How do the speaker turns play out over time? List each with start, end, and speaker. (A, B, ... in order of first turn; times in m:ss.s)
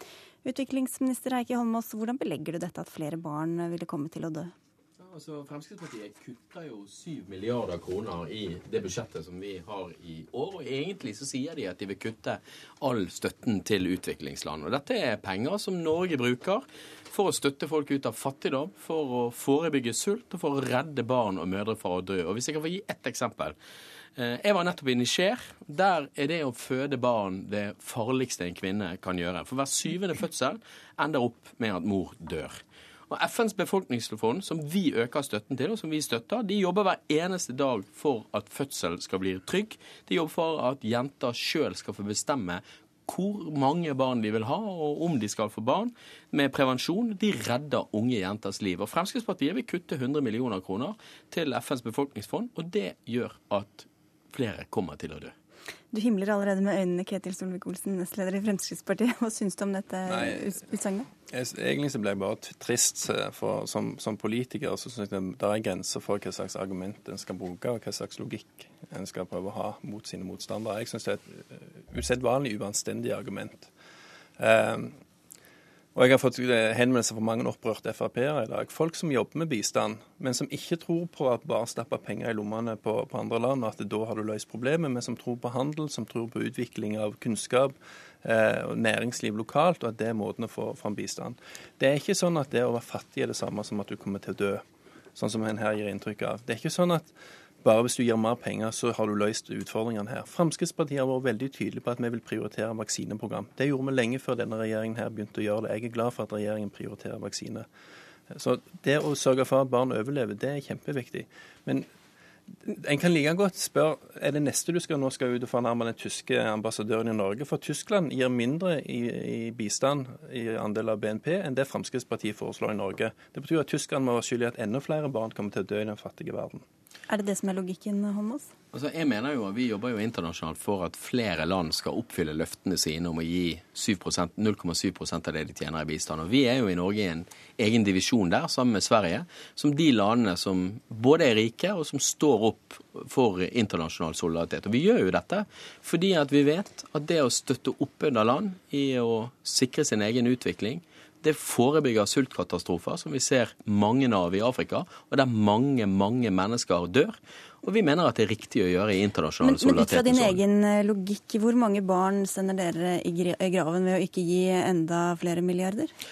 0:00.4-0:04.5 A
0:05.0-0:23.6 B
0:24.2-0:32.6 B
0:33.1-0:55.3 B
0:55.9-1:01.1 A
1:00.1-1:00.5 C
1:01.3-1:13.7 C
1:14.4-1:14.9 C
1:16.0-1:34.6 C
1:35.2-1:47.7 C
1:48.3-1:51.9 C
1:52.7-2:06.6 C
2:07.1-2:08.5 A
2:08.7-2:40.4 B
2:39.4-2:45.9 A